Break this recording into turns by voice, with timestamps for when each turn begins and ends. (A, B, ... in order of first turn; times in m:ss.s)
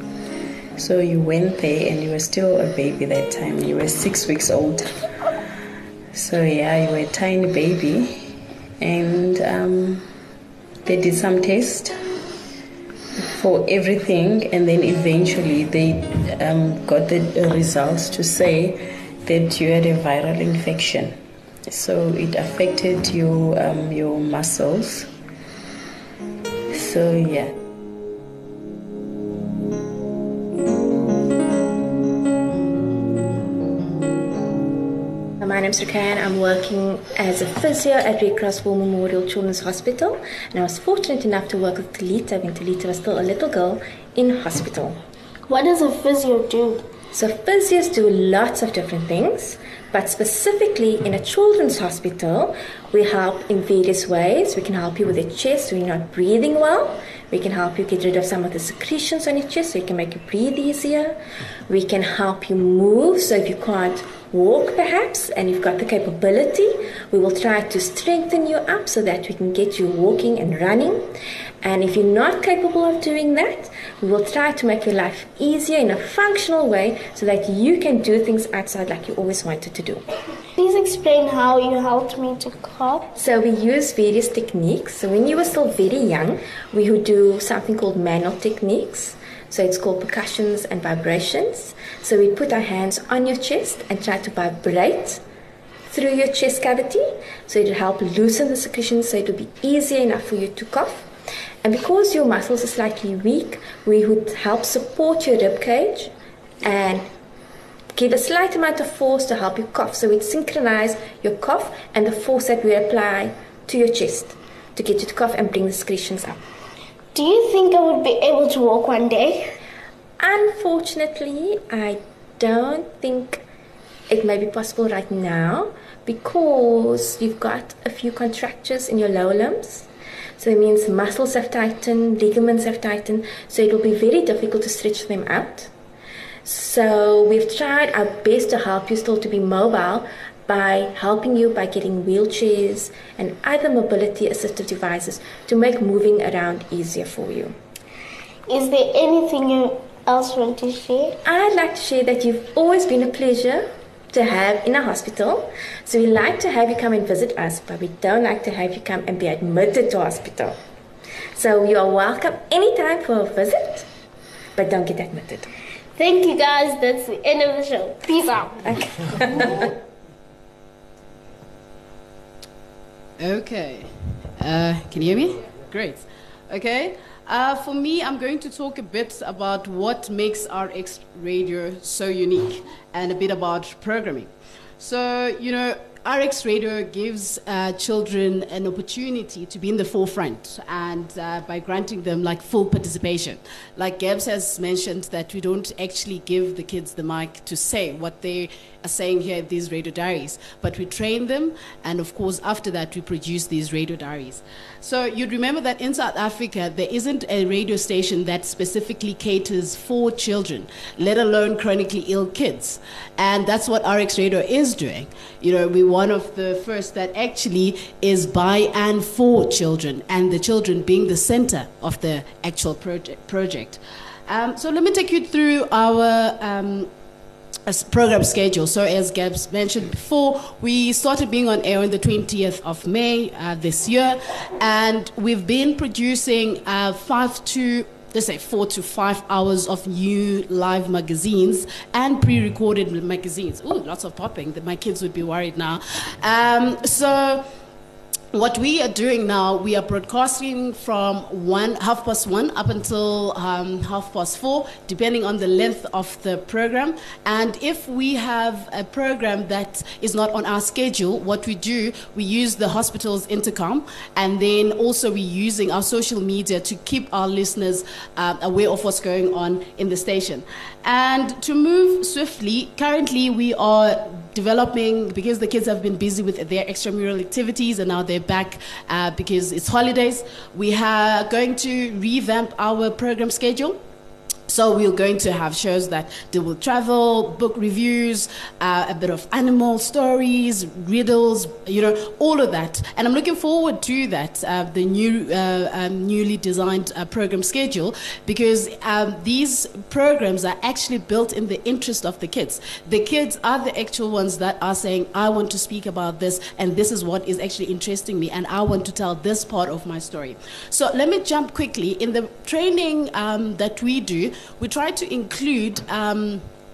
0:00.8-0:05.1 A
0:06.1-0:10.1 A
0:10.8-0:12.0 A
0:13.2-0:25.1 A
0:26.7-0:27.5 A
0:35.4-0:45.0 B
0:45.5-0:46.9 C
0:47.1-1:01.2 B
1:01.7-1:11.1 B
1:11.6-1:20.0 B
1:20.6-1:23.1 C
1:23.2-1:35.2 B
1:35.9-1:41.1 B
1:41.6-1:46.1 B
1:46.6-1:47.1 B
1:48.0-1:56.4 B
1:57.2-1:59.5 C
2:00.2-2:03.4 B
2:04.1-2:09.9 B
2:10.4-2:15.7 B
2:16.4-2:27.6 B
2:28.5-2:31.2 C
2:31.2-2:40.6 B
2:41.4-2:43.9 B
2:44.6-2:45.5 B
2:46.0-2:49.5 C
2:53.2-3:46.9 D
3:47.7-4:07.5 D
4:08.3-4:43.8 D
4:44.5-5:16.5 D